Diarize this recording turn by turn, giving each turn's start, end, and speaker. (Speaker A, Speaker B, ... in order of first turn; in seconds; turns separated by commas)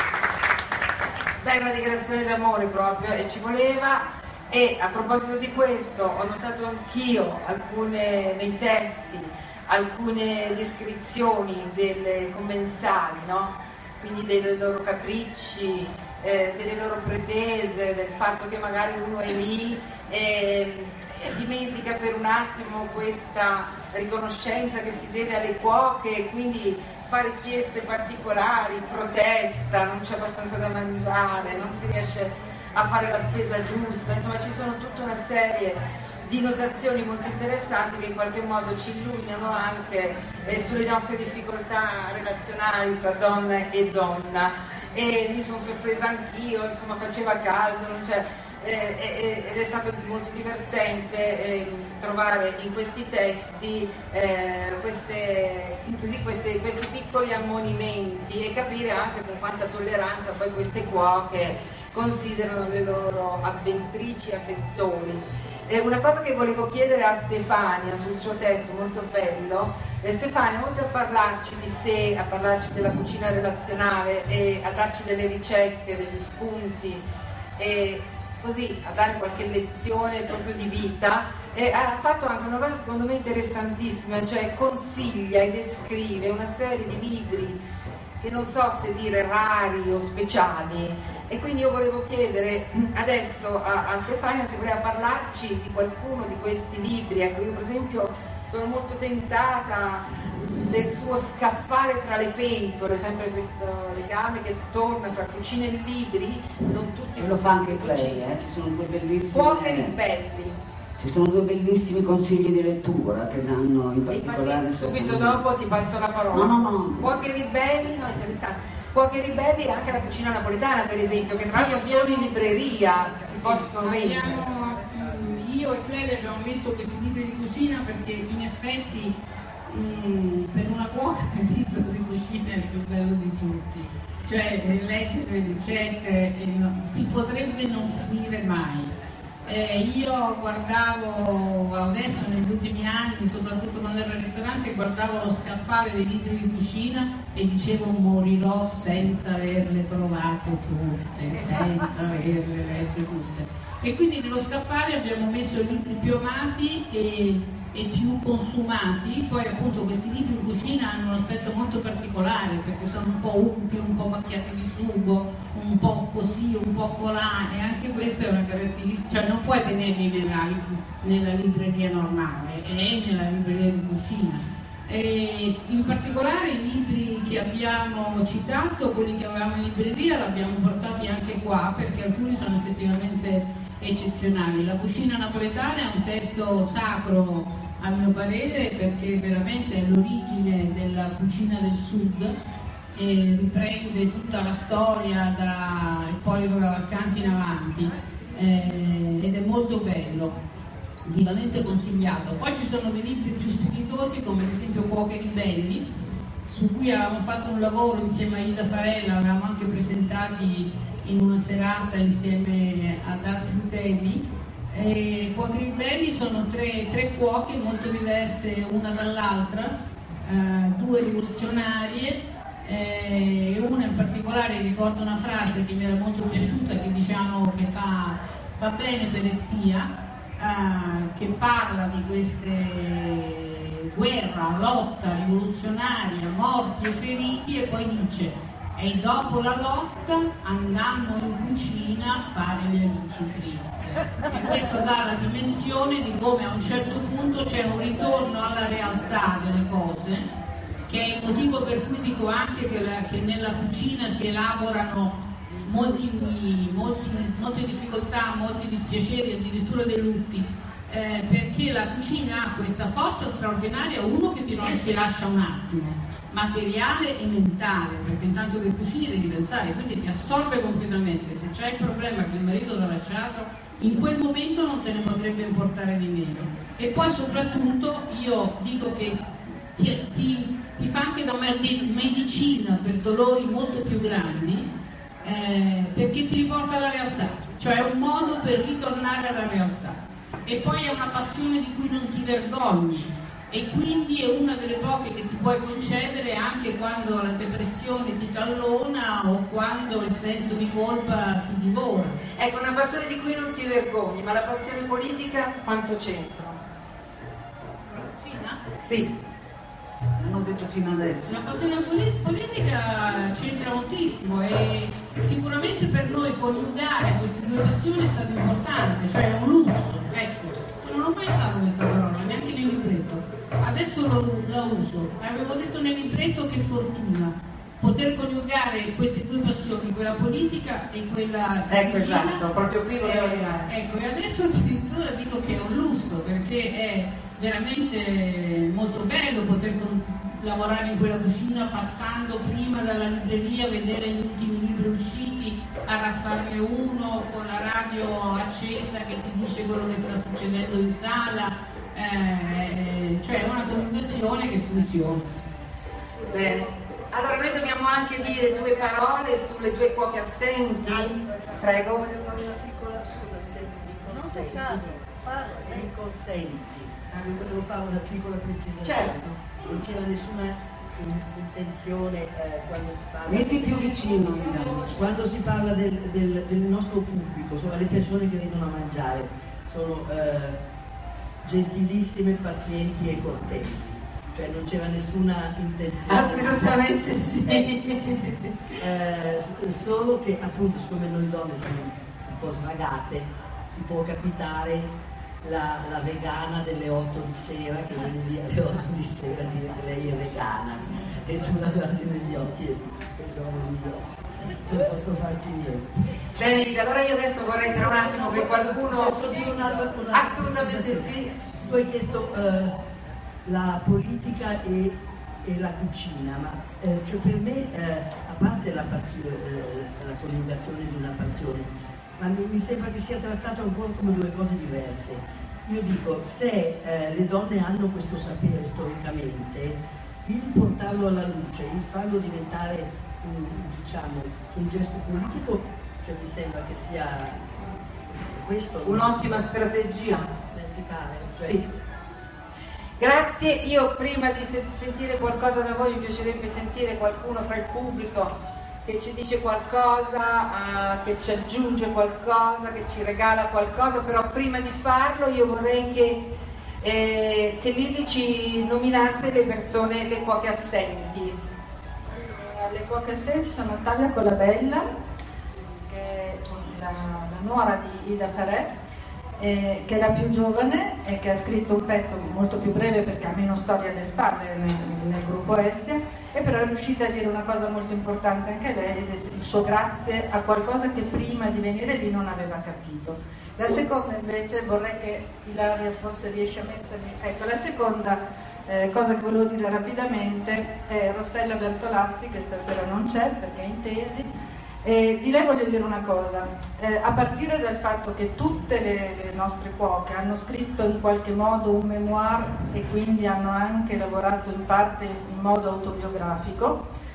Speaker A: 1.4-77.0, Speaker A: 77.6-87.6, Speaker A: 88.2-108.2, Speaker B: 107.2-109.9, Speaker A: 109.3-110.6, Speaker B: 111.0-115.4, Speaker A: 114.1-124.3, Speaker B: 116.3-117.1, Speaker C: 121.5-122.1, Speaker C: 123.3-138.9, Speaker C: 139.4-192.4, Speaker C: 192.9-200.4, Speaker C: 201.0-205.9, Speaker C: 206.4-250.3, Speaker C: 250.9-302.2, Speaker A: 302.4-306.6, Speaker C: 307.9-308.6, Speaker A: 308.8-309.1, Speaker B: 310.2-311.6, Speaker C: 311.3-332.5, Speaker A: 331.7-333.7, Speaker C: 333.0-355.3, Speaker A: 356.3-362.0, Speaker D: 360.9-374.1, Speaker A: 367.1-367.5, Speaker A: 368.8-369.4, Speaker B: 373.3-375.0, Speaker A: 374.2-375.0, Speaker D: 374.9-380.6, Speaker D: 381.4-386.8, Speaker A: 386.1-388.5, Speaker D: 387.4-387.7, Speaker D: 388.8-394.9, Speaker D: 395.4-406.2, Speaker A: 406.3-409.6, Speaker D: 407.6-412.8, Speaker A: 410.1-411.3, Speaker D: 413.4-439.5, Speaker A: 438.8-440.3, Speaker D: 440.5-441.6, Speaker A: 443.0-448.3, Speaker A: 448.8-456.2, Speaker A: 456.8-461.4, Speaker E: 462.1-464.9, Speaker E: 465.6-468.7, Speaker E: 469.4-494.3, Speaker E: 494.8-506.8